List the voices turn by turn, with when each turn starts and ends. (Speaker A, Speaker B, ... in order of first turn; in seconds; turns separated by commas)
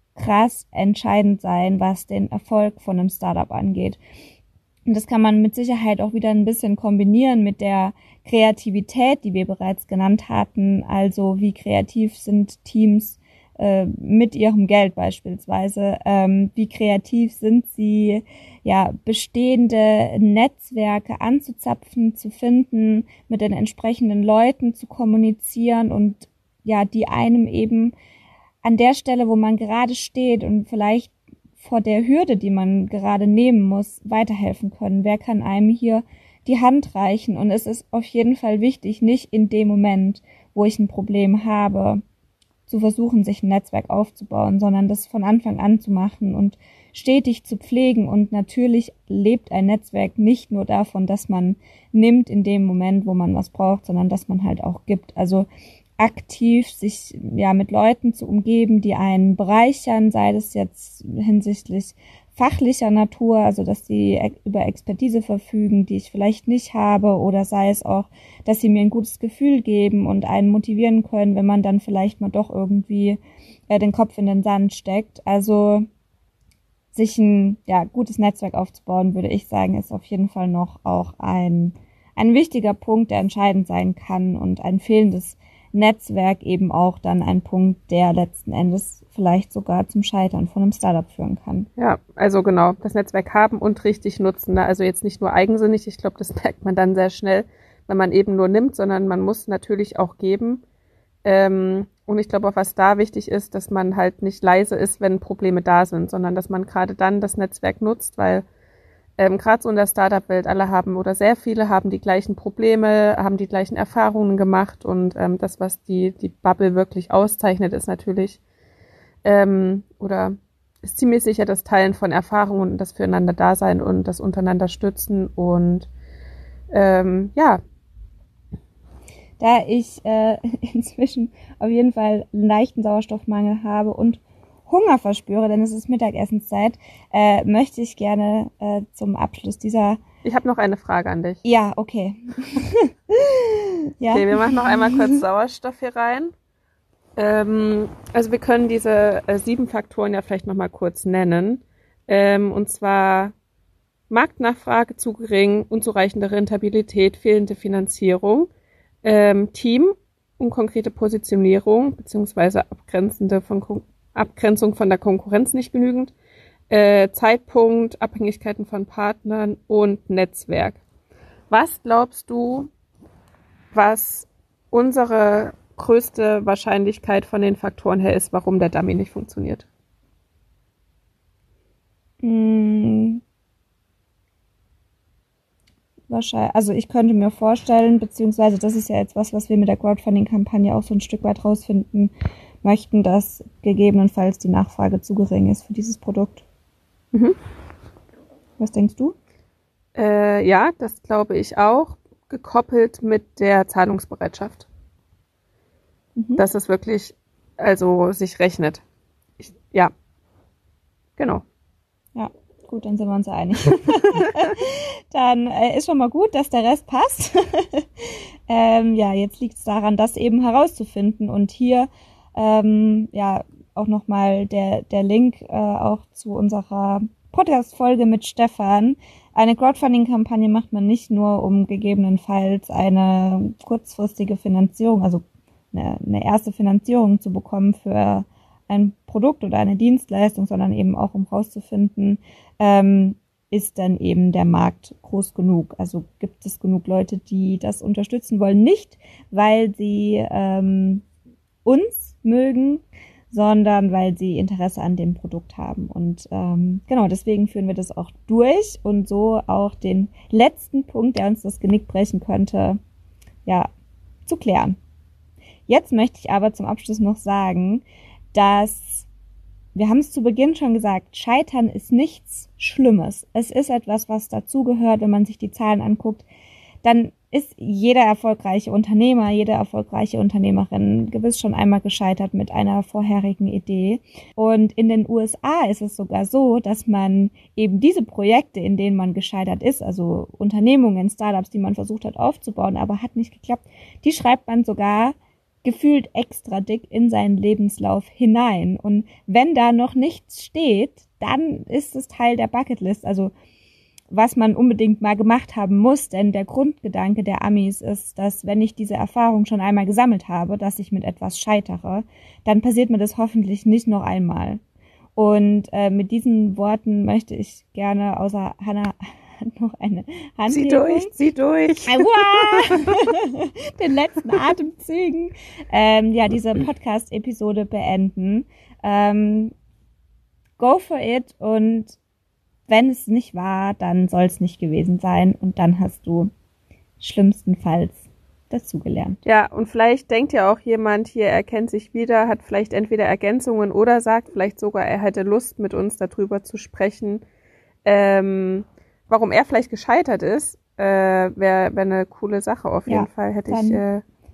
Speaker A: 0.2-4.0, Speaker A: 4.9-27.9, Speaker A: 28.6-42.0, Speaker A: 42.7-55.5, Speaker A: 56.0-75.9, Speaker A: 76.9-91.7, Speaker B: 91.8-100.6, Speaker B: 101.2-108.5, Speaker B: 109.2-118.4, Speaker B: 119.2-125.9, Speaker B: 126.7-127.6, Speaker A: 129.4-140.0, Speaker B: 140.2-141.4, Speaker A: 141.4-145.2, Speaker B: 144.1-146.3, Speaker B: 147.2-153.3, Speaker B: 154.1-158.5, Speaker B: 159.0-166.1, Speaker B: 166.7-170.8, Speaker B: 171.5-172.7, Speaker B: 173.7-179.7, Speaker A: 182.2-183.2, Speaker A: 186.1-192.1, Speaker A: 192.6-196.4, Speaker A: 198.6-199.2, Speaker B: 199.9-204.7, Speaker A: 206.2-206.4, Speaker B: 206.4-208.8, Speaker B: 209.4-209.9, Speaker B: 211.2-211.4, Speaker A: 212.2-251.0, Speaker A: 251.7-262.8, Speaker A: 264.3-264.8, Speaker A: 265.7-269.1, Speaker A: 269.8-276.3, Speaker A: 276.8-303.3, Speaker A: 304.1-314.6, Speaker A: 315.2-321.1, Speaker B: 320.5-323.0, Speaker A: 321.9-329.5, Speaker A: 330.6-332.0, Speaker A: 332.7-336.3, Speaker A: 337.0-339.2, Speaker B: 339.2-347.2, Speaker B: 347.9-354.0, Speaker A: 352.9-353.8